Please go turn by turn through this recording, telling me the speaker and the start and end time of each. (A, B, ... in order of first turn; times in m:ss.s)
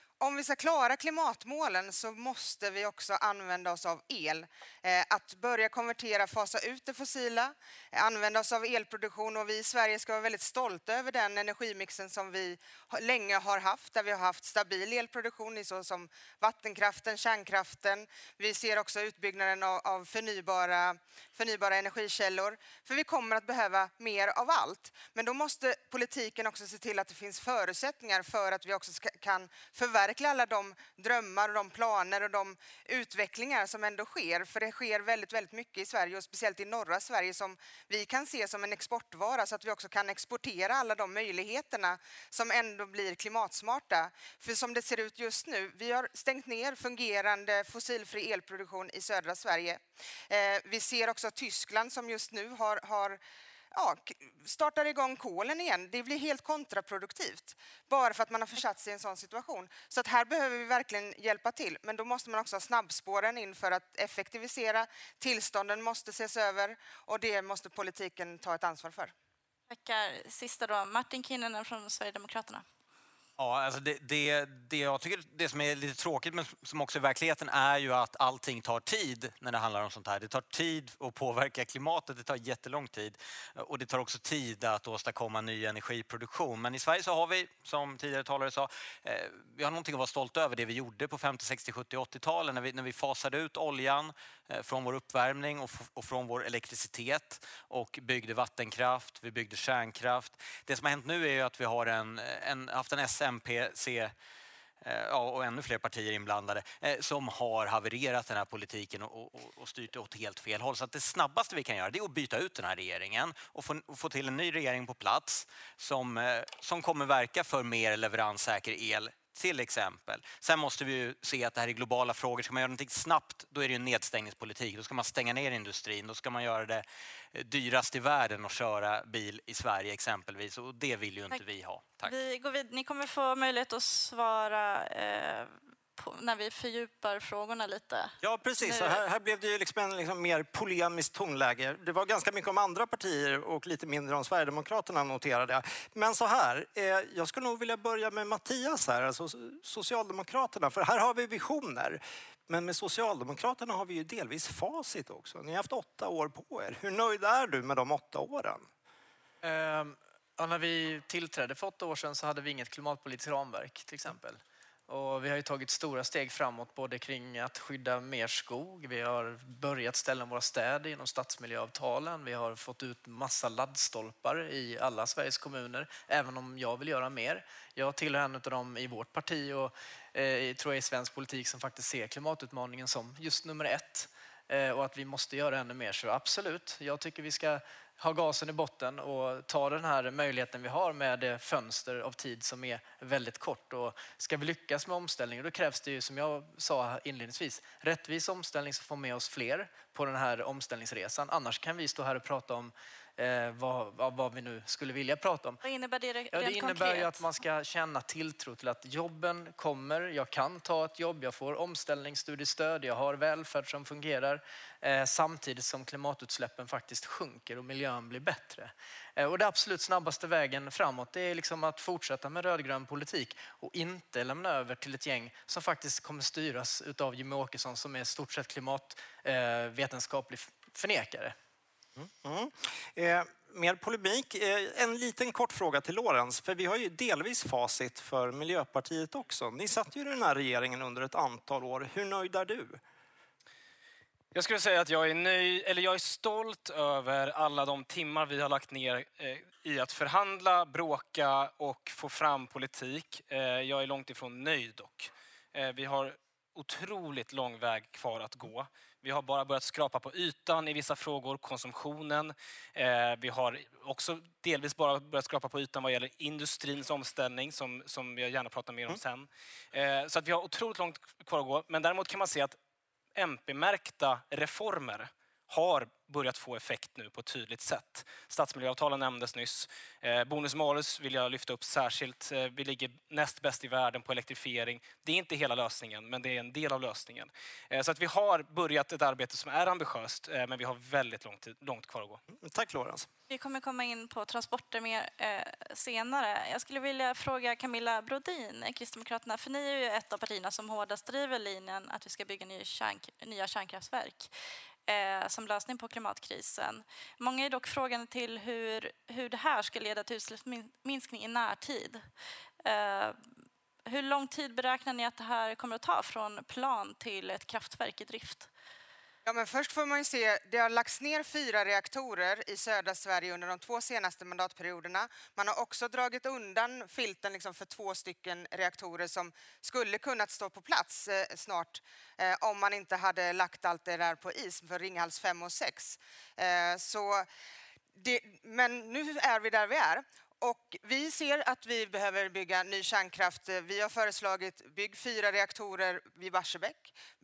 0:00.2-0:53.2 A
0:53.7-1:09.1 A
1:09.7-1:12.6 B
1:13.4-1:44.1 C
1:44.8-2:12.2 C
2:12.0-2:19.0 B
2:18.2-2:38.6 D
2:39.4-3:25.6 E
3:25.6-3:27.3 B
3:26.3-3:51.3 E
3:52.0-4:02.8 D
4:04.3-4:32.6 F
4:33.1-4:52.2 F
4:52.3-4:53.1 D
4:53.3-5:04.3 B
5:04.9-5:12.0 B
5:12.6-5:13.2 B
5:13.9-5:18.5 B
5:19.2-5:37.3 A
5:38.0-5:46.9 A